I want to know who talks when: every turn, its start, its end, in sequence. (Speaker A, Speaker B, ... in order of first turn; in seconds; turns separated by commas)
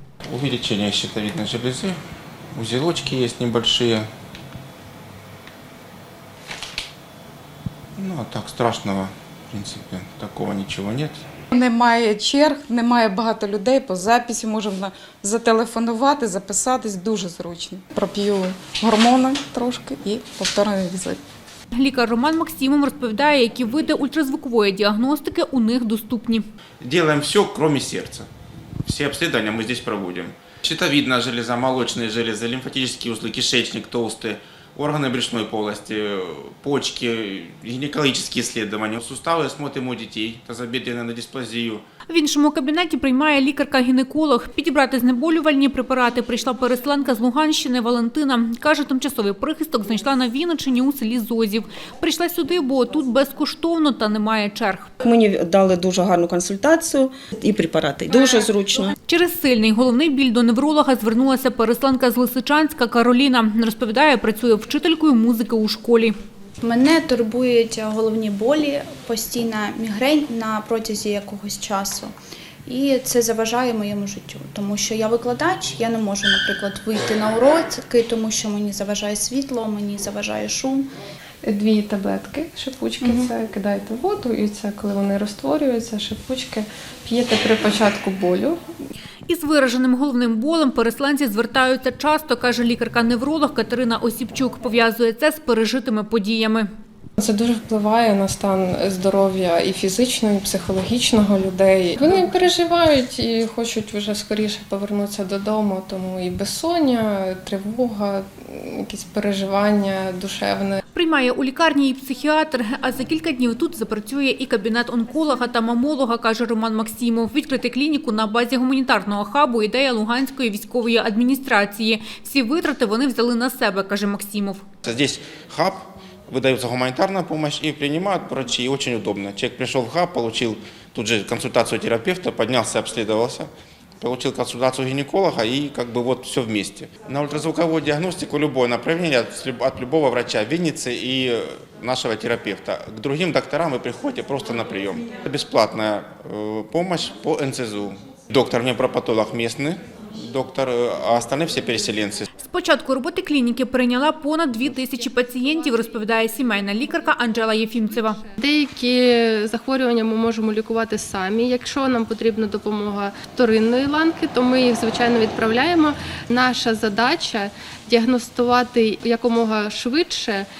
Speaker A: 0.3-2.0, Speaker A: 2.5-4.1, Speaker A: 8.0-11.2, Speaker B: 11.5-21.2, Speaker C: 21.7-26.4, Speaker A: 26.8-28.3, Speaker A: 28.8-41.8, Speaker C: 42.1-54.9, Speaker D: 55.0-58.9, Speaker C: 59.1-66.1, Speaker E: 66.6-72.1, Speaker E: 72.7-80.9, Speaker F: 81.4-88.6, Speaker C: 89.3-96.7, Speaker F: 97.2-110.8, Speaker C: 110.9-124.6, Speaker A: 124.8-133.5, Speaker A: 134.0-152.2, Speaker C: 152.4-158.2, Speaker G: 158.4-170.5